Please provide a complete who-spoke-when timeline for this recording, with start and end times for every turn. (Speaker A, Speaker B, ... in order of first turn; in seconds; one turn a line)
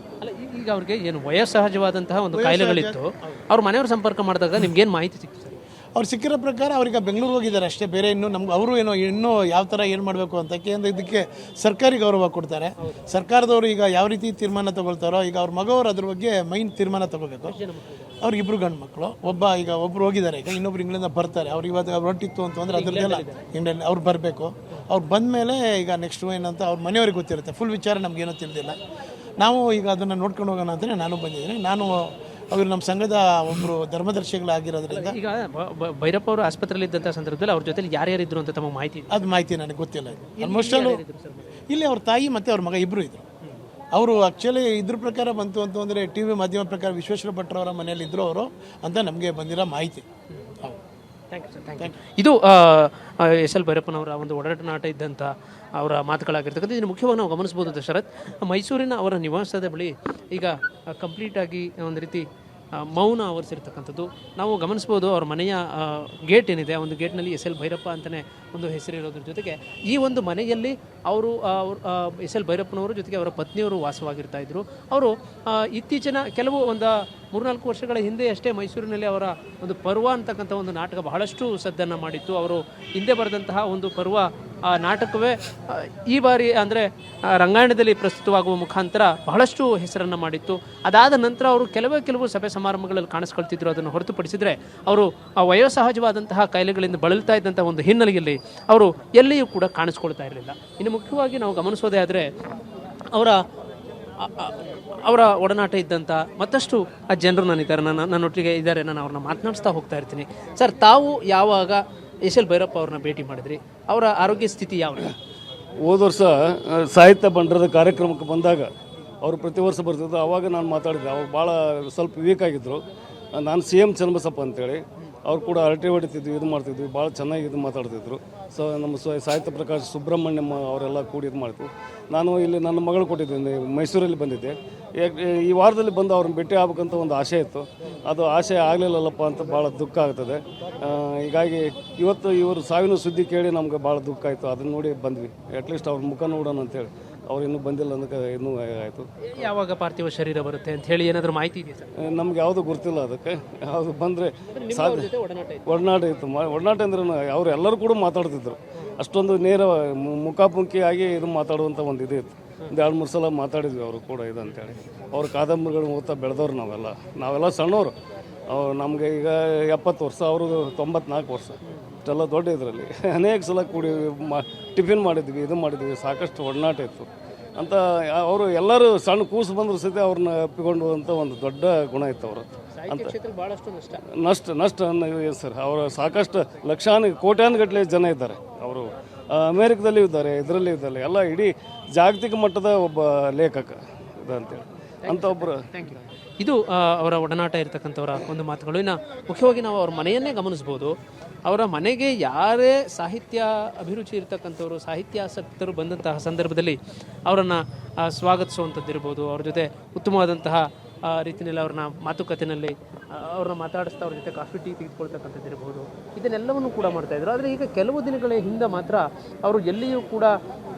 Speaker A: 0.2-5.6
Speaker B: 2.3-3.0
Speaker B: 6.0-17.6
Speaker A: 17.5-18.0
Speaker B: 18.2-28.8
Speaker A: 22.7-23.4
Speaker B: 29.4-35.2
Speaker A: 34.9-39.2
Speaker B: 39.1-41.0
Speaker A: 40.4-41.5
Speaker B: 41.7-43.2
Speaker B: 43.9-50.0
Speaker A: 51.3-102.3
Speaker A: 103.1-103.4
Speaker A: 104.2-115.2
Speaker C: 115.8-122.8
Speaker C: 123.3-149.1
Speaker A: 149.3-151.9
Speaker C: 152.0-155.1
Speaker A: 154.5-155.8
Speaker C: 155.7-167.9
Speaker C: 168.5-183.1
Speaker A: 171.6-172.0
Speaker A: 182.7-184.0
Speaker C: 184.1-195.7
Speaker A: 195.0-220.3